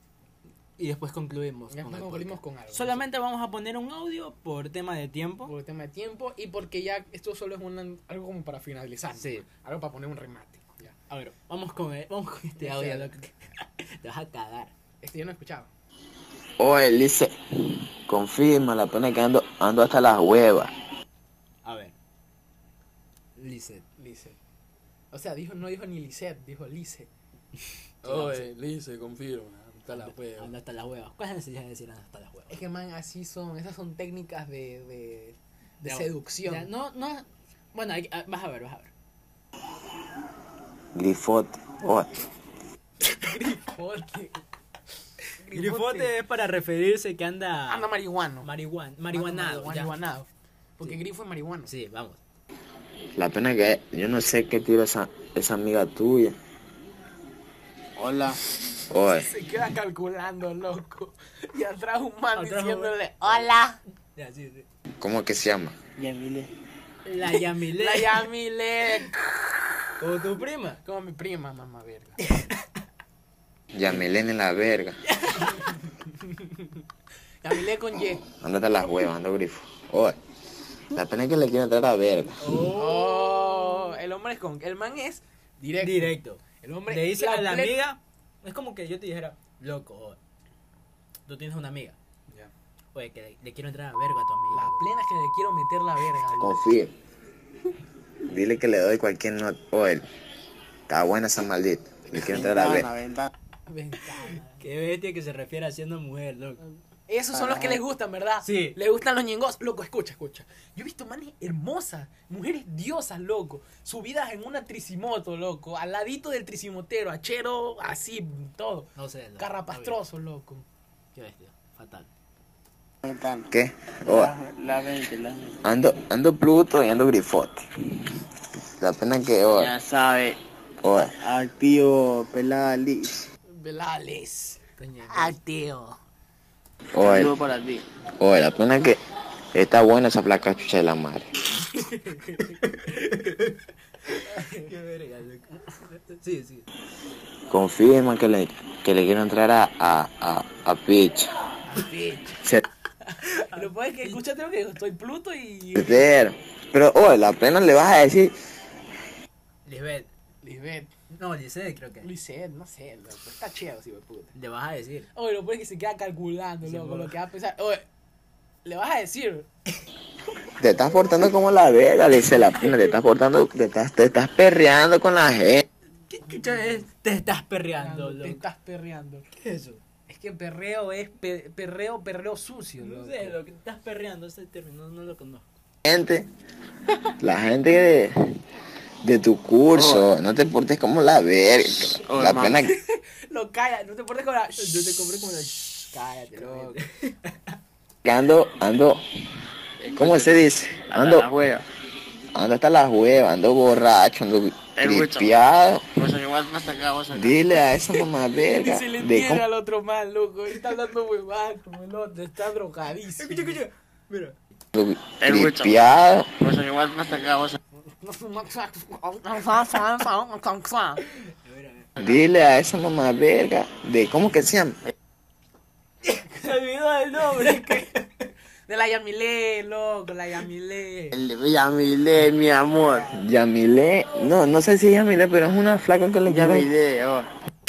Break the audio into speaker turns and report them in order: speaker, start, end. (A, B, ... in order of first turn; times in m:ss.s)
0:00.8-0:05.5 A
0:01.7-0:03.0 B
0:05.4-0:10.9 B
0:09.1-0:09.4 A
0:11.1-0:14.7 A
0:12.6-0:13.1 B
0:15.0-0:15.7 B
0:16.6-0:20.7 C
0:21.6-0:21.9 A
0:23.4-0:23.8 A
0:24.0-0:24.4 B
0:25.1-0:27.1 B
0:28.0-0:28.4 A
0:28.0-0:30.5 B
0:29.9-0:32.6 A
0:32.5-0:36.7 B
0:35.8-0:38.9 A
0:40.9-0:42.2 C
0:43.0-0:44.4 B
0:45.4-0:46.1 B
0:45.5-0:47.9 A
0:47.7-0:48.5 B
0:48.4-0:49.9 A
0:49.1-0:51.7 B
0:51.7-0:52.2 A
0:53.2-0:56.4 C
0:58.0-0:58.4 D
0:58.9-0:59.3 C
0:59.0-1:03.8 B
1:02.3-1:03.5 A
1:04.2-1:04.7 A
1:05.0-1:05.8 C
1:06.0-1:06.5 D
1:07.0-1:08.3 A
1:07.2-1:09.9 B
1:10.0-1:10.8 A
1:10.8-1:12.2 B
1:12.2-1:12.6 A
1:13.7-1:15.0 C
1:15.1-1:15.8 A
1:15.4-1:15.7 B
1:16.3-1:16.7 B
1:17.4-1:18.2 B
1:18.3-1:20.2 C
1:20.9-1:22.4 C
1:22.4-1:23.9 A
1:22.7-1:27.8 B
1:25.8-1:30.2 A
1:31.2-1:32.0 A
1:32.9-1:34.8 A
1:34.5-1:36.6 B
1:36.4-1:36.9 C
1:38.2-1:40.0 C
1:40.9-1:42.9 C
1:42.2-1:43.3 D
1:43.7-1:44.6 B
1:44.2-1:46.6 A
1:47.1-2:00.6 B
1:47.4-1:47.7 D
1:48.4-1:48.8 A
1:59.0-2:00.0 A
2:01.1-2:02.1 A
2:03.0-2:03.5 D
2:03.5-2:04.3 C
2:04.0-2:05.6 D
2:05.6-2:07.6 C
2:08.8-2:09.7 C
2:09.5-2:10.4 D
2:10.8-2:11.2 C
2:11.2-2:13.2 D
2:13.5-2:16.0 B
2:14.8-2:15.4 A
2:16.9-2:17.4 C
2:17.0-2:17.8 D
2:18.2-2:19.0 C
2:19.5-2:21.3 C
2:21.8-2:26.6 A
2:21.8-2:22.6 B
2:24.2-2:24.7 B
2:27.5-2:31.3 C
2:31.6-2:32.4 B
2:33.2-2:36.0 B
2:33.3-2:33.7 A
2:35.8-2:38.3 C
2:39.6-2:40.1 A
2:40.4-2:40.9 B
2:41.1-2:42.1 A
2:42.0-2:44.3 B
2:44.3-2:45.1 A
2:45.1-2:47.8 B
2:46.6-2:47.1 A
2:48.6-2:49.5 B
2:50.6-2:55.6 C
2:56.1-2:58.4 A
2:57.8-2:59.2 B
2:59.3-2:59.8 A
3:00.1-3:03.4 B
3:02.8-3:05.4 A
3:05.8-3:06.3 C
3:07.2-3:08.4 C
3:09.0-3:12.7 C
3:09.7-3:10.1 D
3:12.1-3:12.6 D
3:12.6-3:16.8 B
3:14.6-3:17.6 A
3:18.0-3:19.0 C
3:19.8-3:21.6 D
3:19.9-3:21.2 C
3:22.3-3:25.8 C
3:24.8-3:27.5 D
3:27.1-3:29.4 C
3:28.4-3:33.6 B
3:33.2-3:34.4 A
3:34.7-3:36.3 C
3:35.2-3:37.6 D
3:37.7-3:41.0 B
3:41.1-3:41.9 A
3:42.0-3:44.8 C
3:46.0-3:48.3 A
3:47.1-3:47.9 B
3:48.7-3:51.1 B
3:51.1-3:53.1 D
3:53.1-3:56.7 C
3:56.2-3:57.2 D